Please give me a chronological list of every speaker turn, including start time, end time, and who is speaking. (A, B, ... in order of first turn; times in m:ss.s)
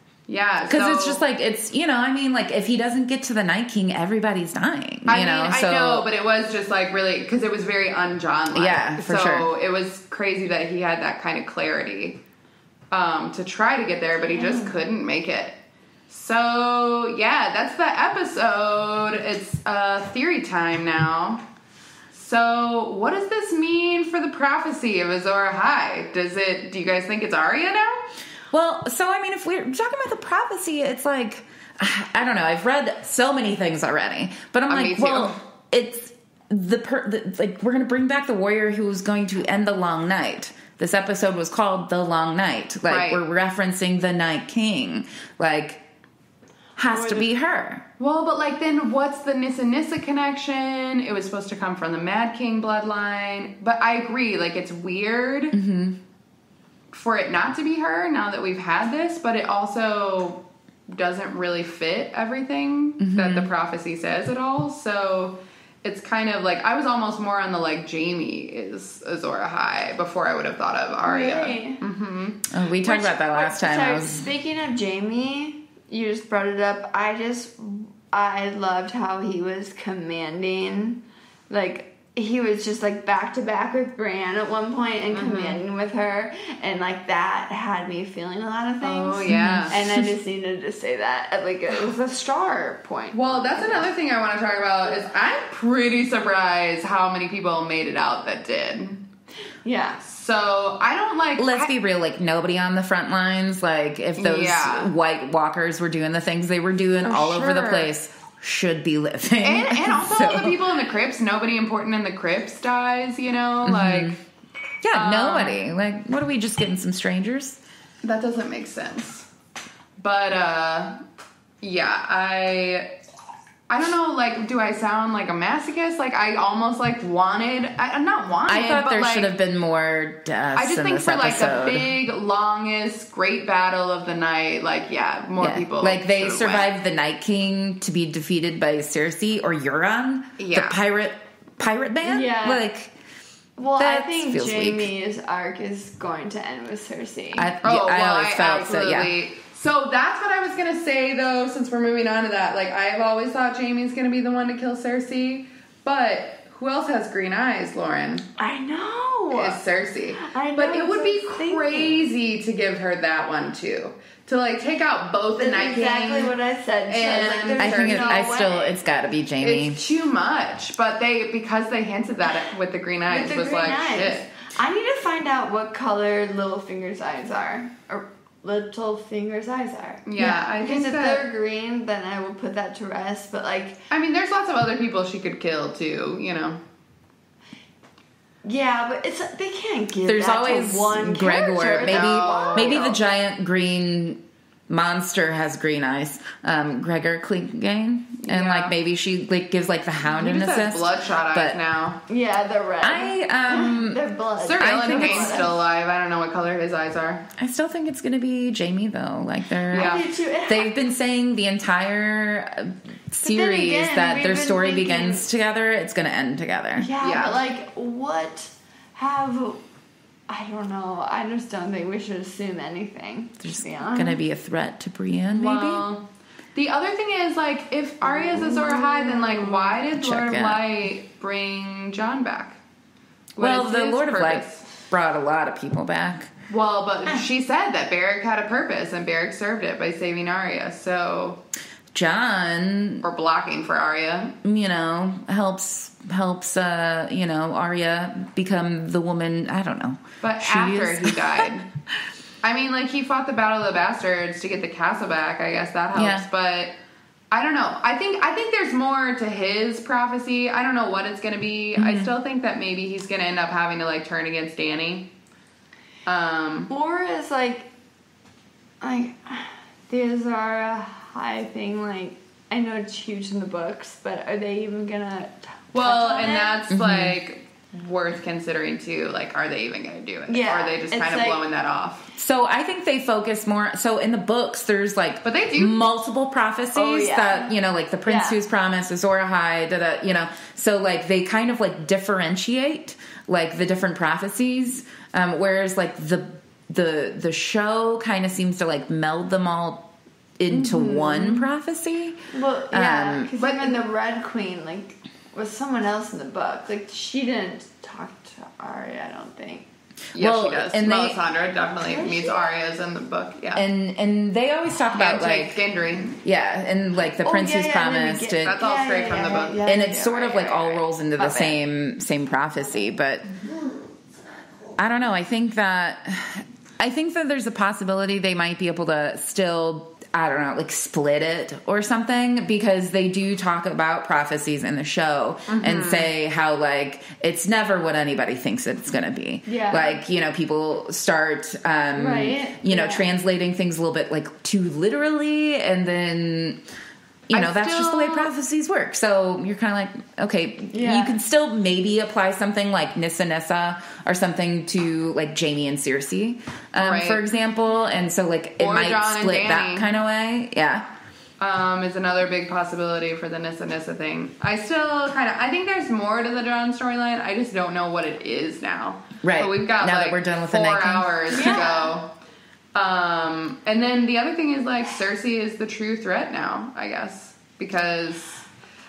0:00.3-0:01.2 A
0:00.7-0:06.1 B
0:05.1-0:12.2 A
0:08.6-0:09.5 B
0:12.9-0:15.6 A
0:14.3-0:14.8 C
0:16.1-0:21.4 A
0:22.1-0:28.0 A
0:28.5-0:45.8 B
0:34.7-0:35.4 A
0:42.9-0:43.2 A
0:46.8-0:47.8 B
0:46.9-0:47.3 C
0:48.0-0:55.6 A
0:55.5-0:56.0 B
0:56.9-1:12.5 A
1:03.0-1:03.5 B
1:11.0-1:11.8 C
1:12.5-1:14.3 B
1:12.8-1:33.9 C
1:25.1-1:25.6 A
1:28.8-1:29.8 A
1:29.3-1:30.1 B
1:33.1-1:39.0 A
1:39.6-1:40.0 C
1:40.0-1:41.7 A
1:41.4-1:50.6 B
1:44.2-1:44.9 A
1:47.0-1:47.9 A
1:49.4-1:54.2 A
1:53.6-1:54.2 B
1:54.8-1:57.6 B
1:54.9-1:55.6 A
1:58.0-1:59.3 A
2:00.0-2:01.0 A
2:01.6-2:02.9 A
2:03.7-2:09.3 A
2:08.5-2:11.9 B
2:10.6-2:16.7 A
2:15.4-2:22.9 B
2:20.4-2:20.8 A
2:22.0-2:22.7 C
2:23.6-2:27.6 C
2:23.8-2:24.9 B
2:27.3-2:29.1 B
2:27.6-2:38.2 A
2:38.4-2:39.6 C
2:39.3-2:46.4 A
2:40.2-2:42.1 C
2:45.4-2:48.8 C
2:46.9-2:48.5 A
2:47.6-2:49.8 B
2:49.4-2:54.3 A
2:53.1-3:03.8 C
3:00.0-3:01.3 A
3:03.9-3:06.6 A
3:08.4-3:13.0 C
3:10.1-3:21.6 B
3:11.8-3:13.0 A
3:18.2-3:18.8 A
3:20.1-3:22.0 A
3:22.1-3:25.6 C
3:22.8-3:24.0 B
3:24.4-3:27.3 A
3:24.6-3:25.5 B
3:27.4-3:36.9 B
3:29.7-3:30.1 A
3:29.7-3:30.8 C
3:33.2-3:35.3 C
3:36.8-3:39.6 C
3:37.0-3:37.5 A
3:40.3-3:44.2 C
3:43.4-3:45.8 B
3:45.3-3:46.0 A
3:46.6-3:52.6 A
3:48.0-3:49.8 C
3:49.9-3:50.6 B
3:53.4-3:54.7 A
3:53.4-3:56.3 B
3:56.5-4:01.4 A
4:01.9-4:03.0 B
4:03.0-4:04.4 A
4:04.4-4:11.4 B
4:10.2-4:11.7 A
4:12.4-4:16.8 A
4:15.9-4:16.3 B
4:17.3-4:25.1 A
4:21.8-4:22.1 B
4:26.1-4:26.7 A
4:26.7-4:27.7 C
4:28.8-4:36.6 C
4:35.7-4:42.0 A
4:36.7-4:37.2 B
4:40.3-4:41.4 C
4:42.2-5:02.2 B
4:45.2-4:45.9 A
4:46.7-4:48.4 C
5:00.5-5:01.4 C
5:02.3-5:09.7 C
5:02.7-5:03.3 B
5:03.4-5:03.8 A
5:10.1-5:13.6 A
5:10.2-5:11.2 B
5:11.8-5:12.5 C
5:13.6-5:15.6 B
5:14.9-5:16.2 A
5:16.2-5:18.6 B
5:17.2-5:20.5 C
5:18.4-5:19.6 A
5:19.6-5:23.3 B
5:20.5-5:20.8 A
5:21.2-5:21.6 C
5:24.8-5:46.6 B
5:35.5-5:36.1 A
5:39.5-5:40.0 C
5:42.0-5:43.1 C
5:47.3-6:00.9 B
5:47.3-5:48.3 A
5:50.7-5:51.2 C
5:56.8-5:57.2 A
5:58.6-5:59.9 A
6:01.4-6:12.1 A
6:09.2-6:11.7 B
6:11.3-6:11.9 C
6:12.8-6:18.4 A